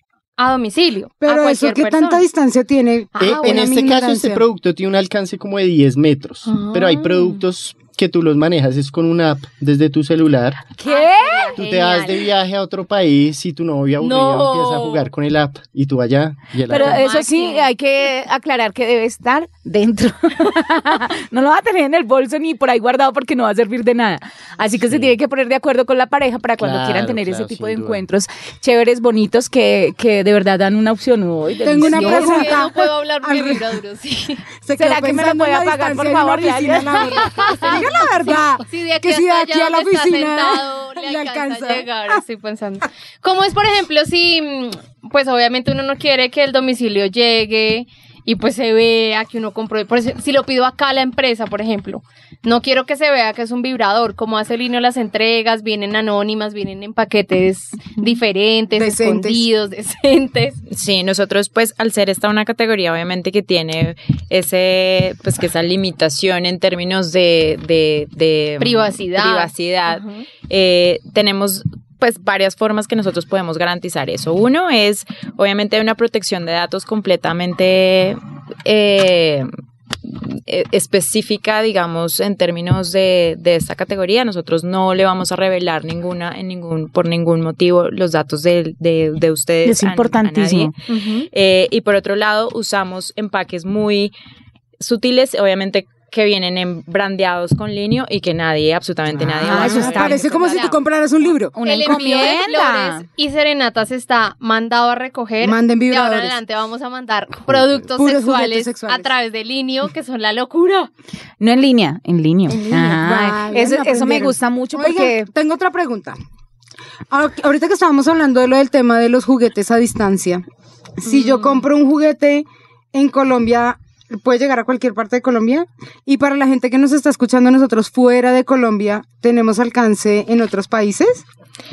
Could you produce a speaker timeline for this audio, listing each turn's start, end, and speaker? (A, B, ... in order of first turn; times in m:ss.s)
0:00.4-0:02.2 A
0:01.2-0:04.4 B
0:03.1-0:03.7 A
0:03.2-0:10.6 C
0:06.5-0:07.4 A
0:10.8-0:11.6 D
0:10.8-0:12.3 A
0:11.6-0:17.0 C
0:14.0-0:15.1 A
0:16.7-0:32.6 D
0:16.7-0:17.7 A
0:24.9-0:25.1 C
0:26.6-0:28.0 C
0:31.6-0:33.7 B
0:31.8-0:34.4 A
0:34.7-0:42.2 B
0:34.8-0:37.8 D
0:36.9-1:00.6 A
0:58.8-0:59.5 B
1:00.7-1:19.5 E
1:08.6-1:10.2 A
1:20.1-1:30.8 E
1:29.6-1:30.7 D
1:30.9-1:31.3 A
1:31.3-1:34.1 E
1:34.8-1:40.2 E
1:39.1-1:41.6 B
1:39.4-1:40.2 D
1:39.6-1:40.8 A
1:41.6-1:43.0 D
1:41.6-1:50.9 A
1:45.4-1:46.4 B
1:47.5-1:47.8 C
1:48.0-1:49.1 B
1:51.4-1:55.3 D
1:52.5-1:56.2 B
1:57.1-2:00.4 B
2:01.0-2:11.2 B
2:01.1-2:01.6 A